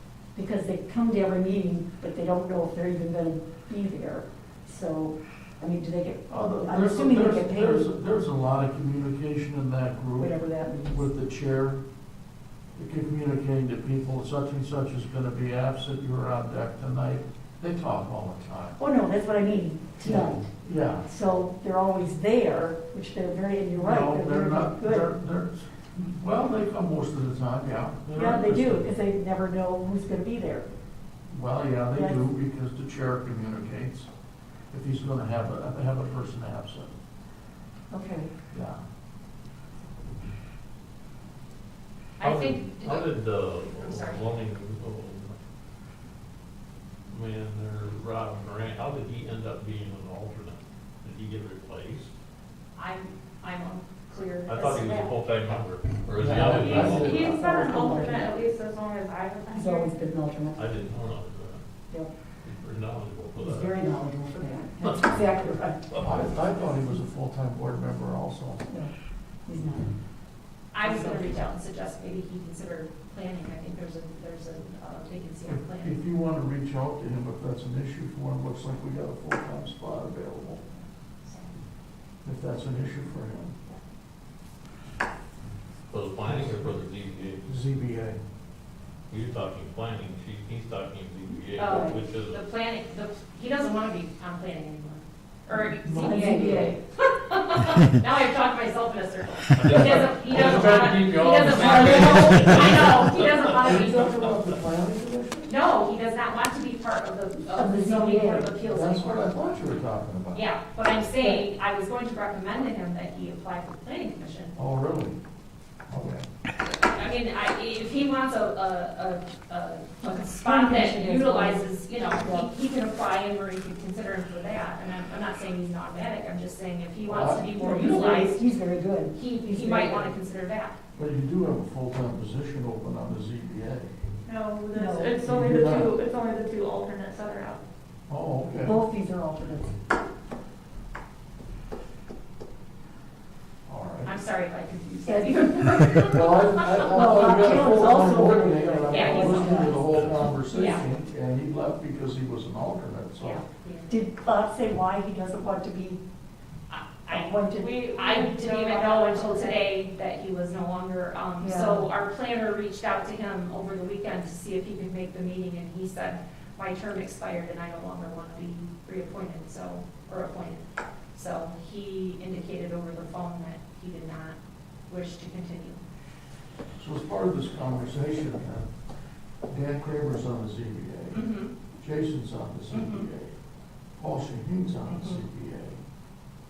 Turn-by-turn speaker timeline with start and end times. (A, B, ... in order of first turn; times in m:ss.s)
0:00.3-0:07.9 A
0:06.3-0:10.3 B
0:10.2-0:11.0 A
0:10.9-0:11.8 B
0:12.8-0:18.8 B
0:18.8-0:20.5 A
0:20.0-0:21.1 B
0:21.0-0:25.1 A
0:23.7-0:28.9 B
0:28.1-0:30.7 A
0:31.3-0:34.1 B
0:31.9-0:32.2 A
0:34.7-0:36.9 B
0:37.9-0:38.3 A
0:38.5-0:38.8 B
0:42.2-0:43.1 C
0:42.2-0:45.4 D
0:43.8-0:44.2 C
0:47.0-0:52.1 D
0:52.8-0:55.2 C
0:54.4-0:57.3 D
0:56.2-0:57.4 B
0:56.4-1:00.0 E
0:57.1-0:58.4 A
0:59.5-1:00.7 A
1:00.5-1:01.6 D
1:02.4-1:03.8 D
1:03.4-1:05.8 A
1:04.8-1:06.1 D
1:05.9-1:08.6 B
1:08.7-1:08.9 A
1:09.4-1:09.9 A
1:10.7-1:16.0 C
1:10.8-1:11.4 A
1:15.4-1:20.6 B
1:21.2-1:21.5 C
1:22.2-1:23.6 B
1:25.9-1:27.5 D
1:26.2-1:26.7 B
1:27.4-1:28.2 B
1:29.1-1:32.4 D
1:31.6-1:44.6 C
1:31.6-1:31.9 A
1:35.5-1:36.8 A
1:35.8-1:36.6 B
1:39.5-1:43.5 D
1:39.7-1:45.6 B
1:45.4-1:49.3 C
1:47.5-1:48.6 A
1:48.6-1:50.4 B
1:50.3-1:54.6 C
1:51.2-1:51.4 A
1:54.6-1:55.2 B
1:55.9-1:56.2 B
1:56.6-2:08.4 C
2:00.1-2:02.5 A
2:07.0-2:08.1 B
2:07.5-2:10.1 A
2:09.1-2:10.8 C
2:11.0-2:13.9 B
2:14.2-2:17.6 E
2:14.7-2:15.2 A
2:15.2-2:16.0 B
2:18.1-2:18.8 B
2:18.6-2:19.7 A
2:23.7-2:24.1 B
2:24.0-2:27.0 C
2:25.0-2:25.7 A
2:26.0-2:33.4 B
2:26.8-2:29.8 A
2:28.9-2:29.8 C
2:29.8-2:30.3 D
2:30.4-2:30.9 C
2:33.2-2:34.0 C
2:33.9-2:36.0 A
2:36.7-2:37.4 C
2:37.1-2:37.8 A
2:37.5-2:39.7 E
2:37.9-2:50.6 C
2:41.4-2:41.9 A
2:51.1-2:54.4 C
2:54.9-2:55.8 C
2:56.8-2:58.7 B
2:59.5-3:03.3 B
3:01.1-3:01.5 C
3:02.7-3:03.1 C
3:04.0-3:05.8 B
3:04.9-3:05.2 C